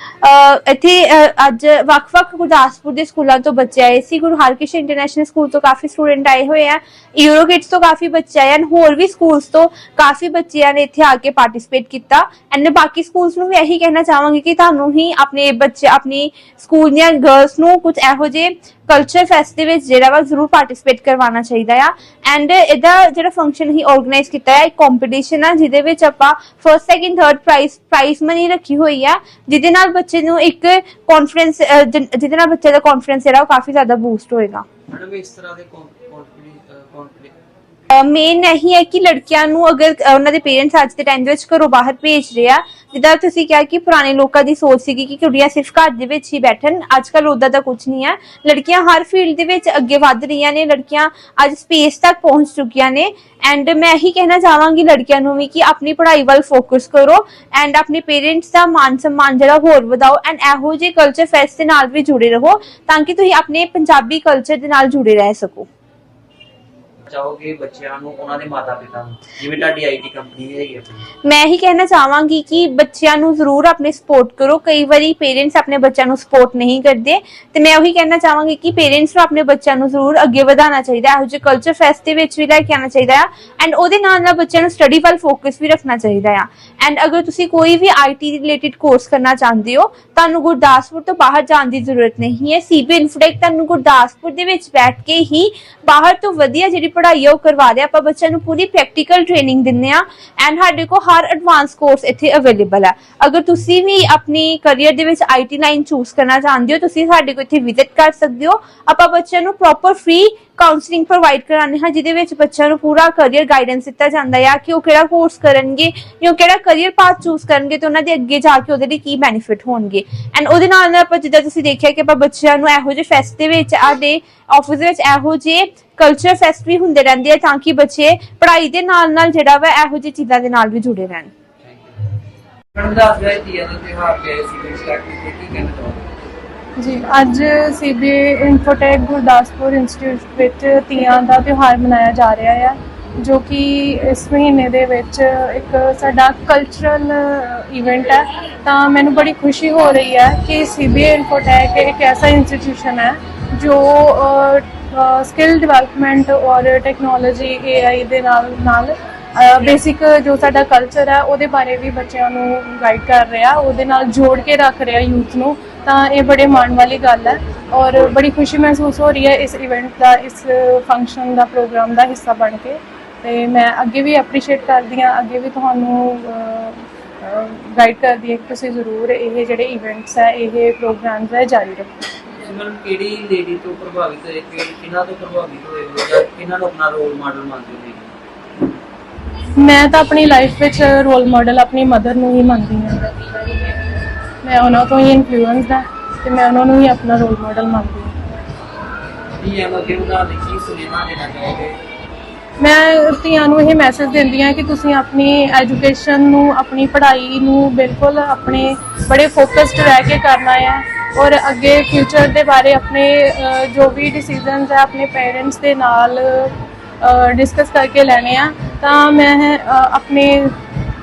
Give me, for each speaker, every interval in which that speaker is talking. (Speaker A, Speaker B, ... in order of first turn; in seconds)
Speaker A: 0.2-34.6, 37.9-65.7, 71.2-131.3
Speaker B: 34.9-37.3, 67.0-71.1, 131.6-131.9, 132.7-136.1, 182.3-188.1, 199.4-201.8
Speaker C: 136.8-181.9, 189.6-198.1, 202.6-220.6